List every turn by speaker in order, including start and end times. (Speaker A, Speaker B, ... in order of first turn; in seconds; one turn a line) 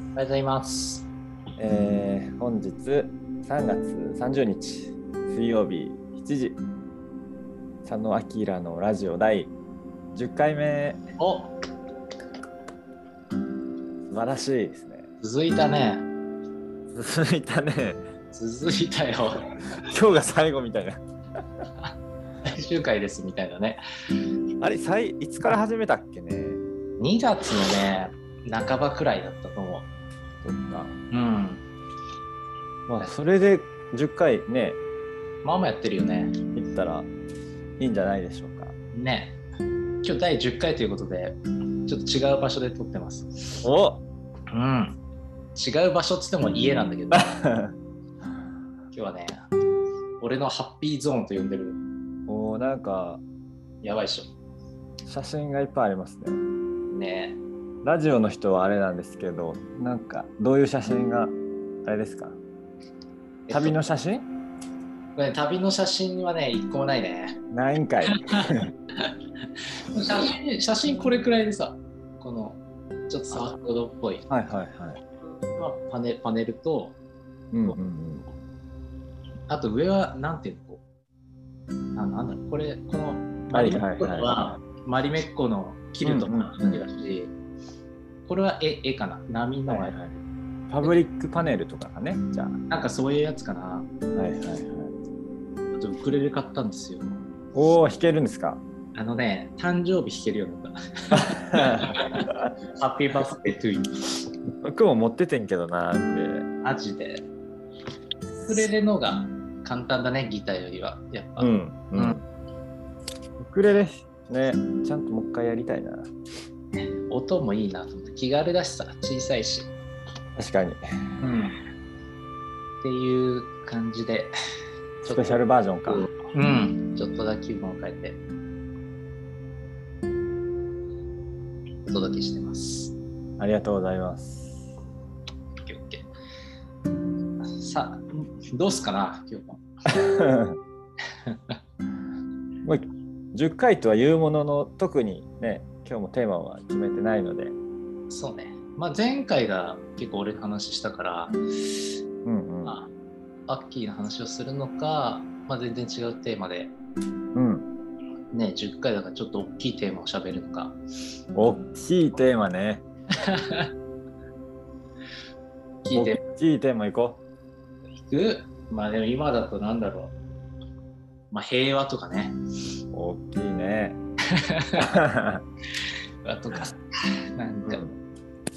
Speaker A: 0.1-1.1
Speaker B: 1.6-6.6
Speaker B: 7.8-9.5
Speaker B: 10.1-11.0
Speaker A: 11.2-11.5
Speaker B: 14.1-15.1
Speaker A: 15.2-16.0
Speaker B: 16.9-18.0
Speaker A: 18.3-19.5
Speaker B: 19.9-21.0
Speaker A: 22.4-23.8
Speaker B: 24.6-26.6
Speaker A: 27.0-29.9
Speaker B: 30.4-31.0
Speaker A: 31.1-31.6
Speaker B: 32.9-34.8
Speaker A: 35.4-36.3
Speaker B: 36.5-37.1
Speaker B: 37.8-38.7
Speaker A: 38.9-39.4
Speaker A: 40.0-43.6
Speaker B: 43.6-44.0
Speaker A: 44.5-45.0
Speaker A: 45.5-47.3
Speaker B: 47.1-47.7
Speaker A: 48.9-49.5
Speaker A: 50.2-51.8
Speaker B: 52.3-53.2
Speaker A: 53.8-54.3
Speaker B: 55.0-56.4
Speaker A: 56.9-57.4
Speaker B: 57.8-62.4
Speaker A: 63.5-63.8
Speaker B: 63.5-64.3
Speaker A: 65.2-67.4
Speaker B: 67.5-68.7
Speaker A: 68.0-69.1
Speaker A: 69.7-74.2
Speaker B: 74.3-75.0
Speaker A: 75.5-77.0
Speaker B: 77.5-78.2
Speaker A: 79.5-80.8
Speaker A: 81.9-87.3
Speaker B: 83.5-84.4
Speaker B: 86.0-86.8
Speaker A: 88.3-90.0
Speaker B: 89.7-90.1
Speaker B: 90.7-92.6
Speaker A: 92.7-93.9
Speaker B: 94.1-94.9
Speaker A: 95.8-97.2
Speaker B: 97.5-98.6
Speaker A: 98.9-104.0
Speaker B: 101.1-102.0
Speaker B: 104.6-106.5
Speaker A: 106.6-107.2
Speaker A: 108.4-112.2
Speaker B: 111.4-112.2
Speaker B: 113.4-116.1
Speaker A: 117.1-119.7
Speaker B: 120.3-120.8
Speaker A: 121.2-121.6
Speaker A: 122.8-124.3
Speaker B: 125.0-126.0
Speaker A: 125.9-128.2
Speaker A: 131.9-133.0
Speaker B: 133.4-134.7
Speaker A: 135.6-136.1
Speaker A: 137.4-139.9
Speaker B: 139.9-140.6
Speaker A: 141.2-141.6
Speaker B: 142.6-147.6
Speaker A: 148.1-151.9
Speaker B: 152.2-152.8
Speaker A: 152.6-152.9
Speaker A: 153.5-156.7
Speaker B: 157.3-157.7
Speaker A: 158.3-160.8
Speaker B: 161.3-162.8
Speaker A: 163.1-163.7
Speaker A: 165.8-166.2
Speaker B: 165.9-167.2
Speaker A: 168.0-170.1
Speaker A: 171.3-172.4
Speaker B: 172.9-174.0
Speaker A: 174.3-174.9
Speaker B: 174.8-175.4
Speaker A: 176.2-177.8
Speaker B: 177.6-177.9